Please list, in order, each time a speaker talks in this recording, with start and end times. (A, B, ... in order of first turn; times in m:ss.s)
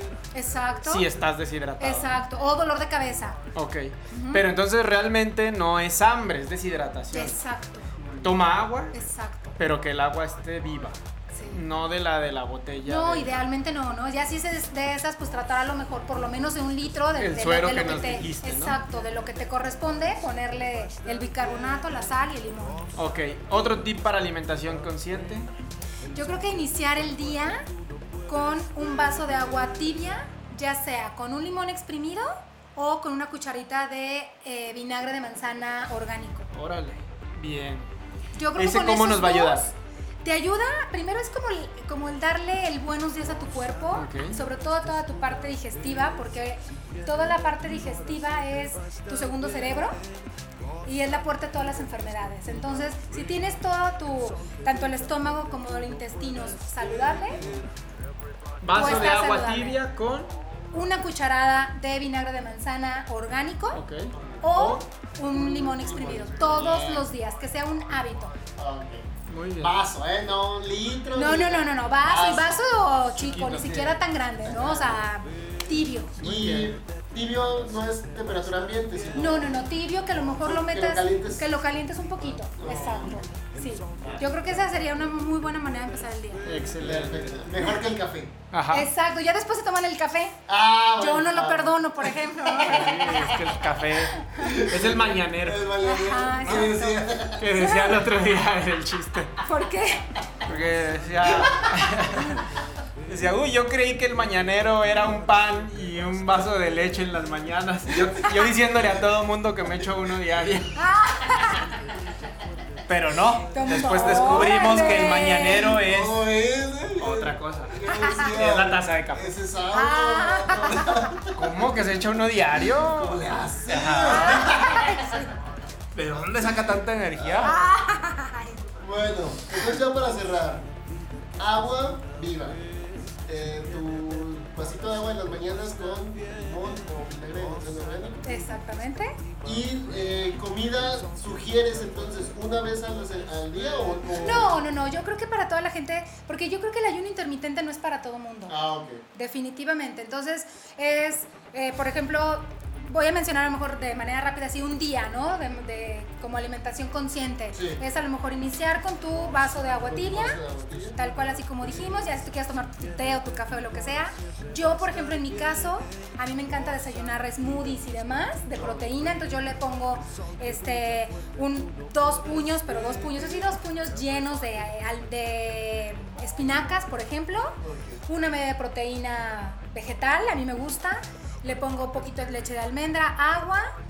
0:00.3-0:01.1 A
0:00.8-0:02.2 B
0:01.8-0:03.4 A
0:03.5-0:07.4 B
0:04.1-0:04.4 A
0:07.1-0:07.9 A
0:08.0-0:08.3 C
0:08.2-0:09.0 B
0:08.9-0:09.5 A
0:09.6-0:11.0 B
0:11.3-0:11.6 A
0:11.5-0:13.4 B
0:12.8-0:22.9 A
0:17.2-0:18.8 B
0:23.0-0:25.5 B
0:26.1-0:27.6 A
0:28.3-0:36.5 A
0:36.5-0:37.9 B
0:38.4-0:50.0 A
0:38.5-0:39.7 B
0:43.9-0:44.4 B
0:50.8-0:57.4 A
0:57.3-0:57.7 C
0:58.6-1:00.3 B
0:58.7-0:59.8 A
1:00.7-1:03.8 A
1:03.7-1:04.8 B
1:04.1-1:04.6 C
1:04.4-1:08.3 A
1:05.3-1:07.1 C
1:08.6-1:09.1 C
1:09.3-1:09.8 B
1:09.6-1:12.6 C
1:11.1-1:16.2 A
1:13.2-1:15.0 C
1:16.2-1:19.6 C
1:16.2-1:16.8 B
1:19.1-1:26.4 A
1:20.4-1:21.6 C
1:22.3-1:23.2 C
1:24.0-1:24.2 C
1:26.4-1:27.6 B
1:26.8-1:28.4 C
1:28.5-1:28.9 B
1:28.7-1:30.4 A
1:30.5-1:33.5 C
1:31.0-1:33.3 A
1:32.6-1:35.7 B
1:34.3-1:37.5 C
1:35.8-1:38.0 A
1:36.4-1:36.7 B
1:37.4-1:39.4 B
1:39.4-1:40.1 A
1:40.4-1:42.5 B
1:41.4-1:41.8 C
1:43.0-1:50.8 B
1:50.8-1:51.7 A
1:52.9-1:56.2 B
1:53.5-1:55.8 A
1:55.8-2:01.5 C
1:57.0-1:59.3 B
1:57.9-1:58.3 A
1:59.7-2:01.1 A
2:01.3-2:04.4 B
2:02.7-2:05.1 C
2:04.1-2:05.3 A
2:05.9-2:07.6 B
2:07.2-2:07.5 C
2:07.4-2:08.7 A
2:08.8-2:10.7 C
2:11.4-2:12.6 C
2:13.2-2:18.2 C
2:18.2-2:19.2 A
2:19.4-2:24.6 C
2:24.2-2:28.6 A
2:28.5-2:29.0 C
2:29.1-2:40.4 A
2:37.5-2:37.8 C
2:39.9-2:41.0 C
2:40.9-3:03.7 A
2:48.5-2:49.0 C
2:57.6-2:58.0 C